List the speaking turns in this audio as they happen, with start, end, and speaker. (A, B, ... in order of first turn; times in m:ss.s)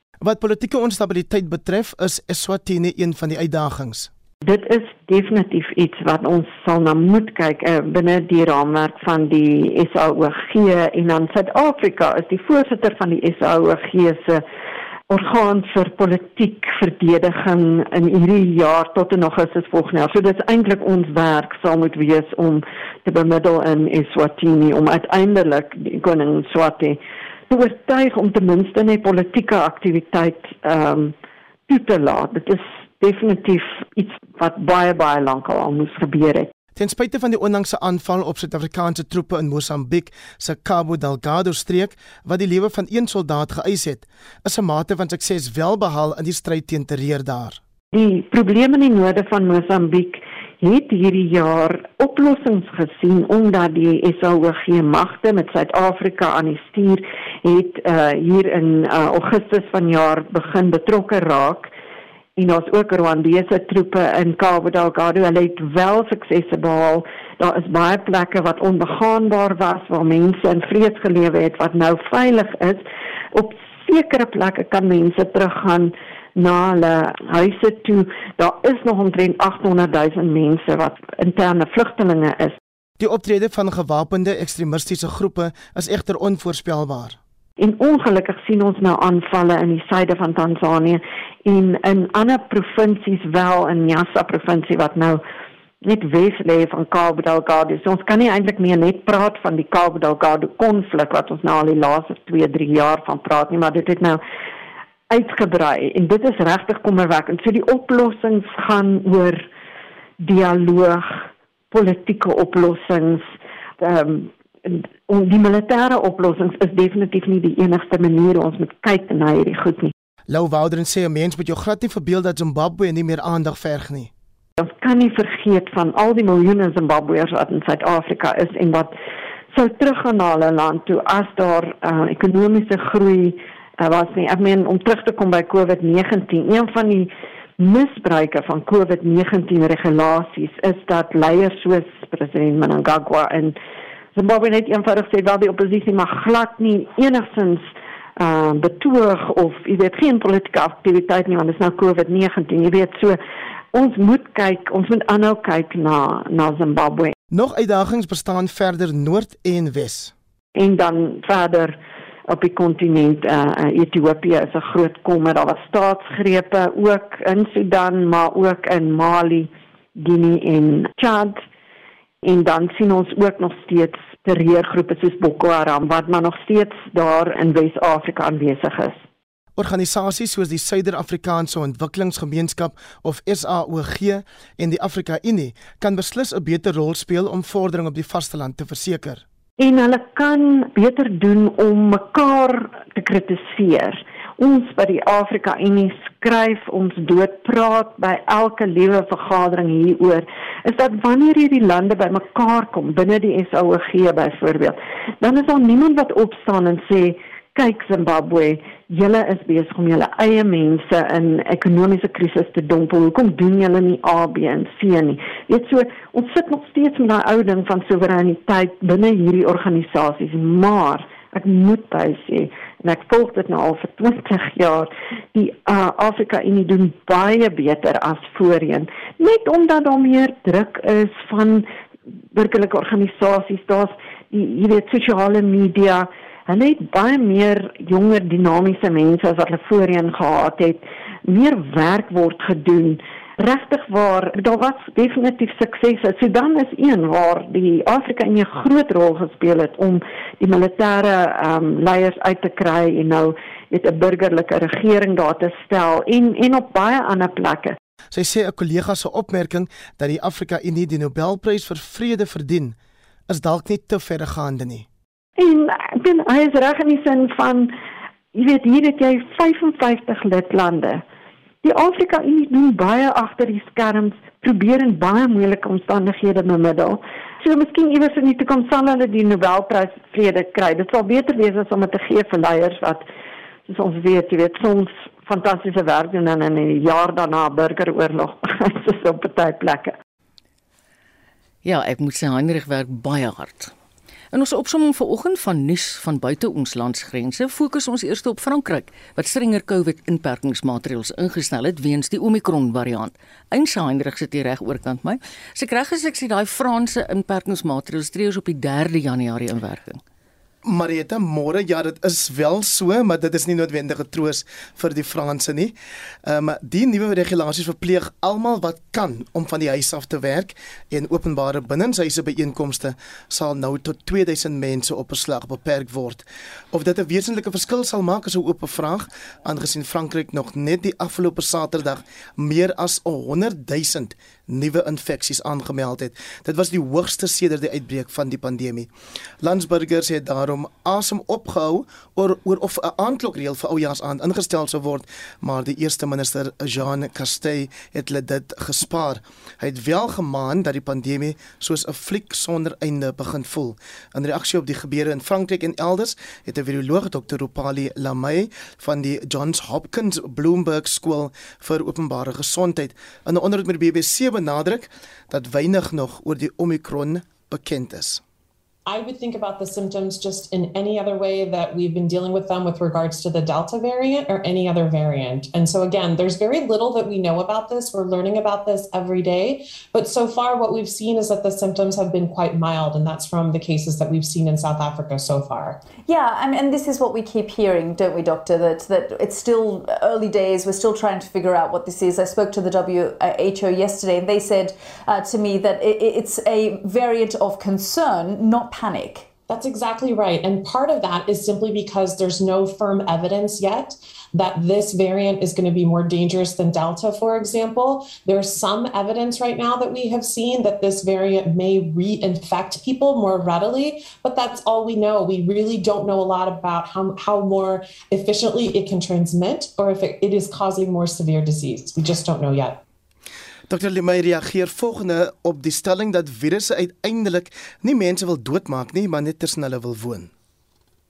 0:00.2-0:04.1 A
0:04.4-0:14.4 B
0:15.1-0:31.1 B
0:31.7-0:36.5 B
0:36.8-0:47.6 A
0:47.9-1:01.7 B
1:02.4-1:22.6 B
1:23.0-1:27.2 A
1:27.6-1:35.2 B
1:35.8-1:44.2 B
1:45.1-1:49.4 B
1:50.2-1:53.3 B
1:53.8-1:59.9 B
2:00.3-2:04.1 A
2:04.6-2:08.9 B
2:09.5-2:23.6 B
2:24.2-2:27.6 B
2:28.2-2:33.2 B
2:33.7-2:37.1 B
2:37.3-2:40.1 A
2:40.6-2:41.8 B
2:42.3-2:51.4 B
2:52.2-2:59.0 B
2:59.6-3:09.2 A
3:09.6-3:51.7 B
3:52.3-4:17.8 B
4:18.1-4:22.8 A
4:23.3-4:24.9 A
4:25.4-4:27.7 B
4:28.3-4:31.0 B
4:31.6-4:43.0 B
4:43.7-4:49.9 B
4:51.6-4:53.7 C
4:54.3-5:10.0 C
5:10.6-5:15.7 A
5:16.2-5:38.9 A
5:39.4-6:08.2 A
6:08.9-6:25.8 D
6:26.0-6:39.3 E
6:39.5-7:02.8 D
7:03.7-7:10.3 A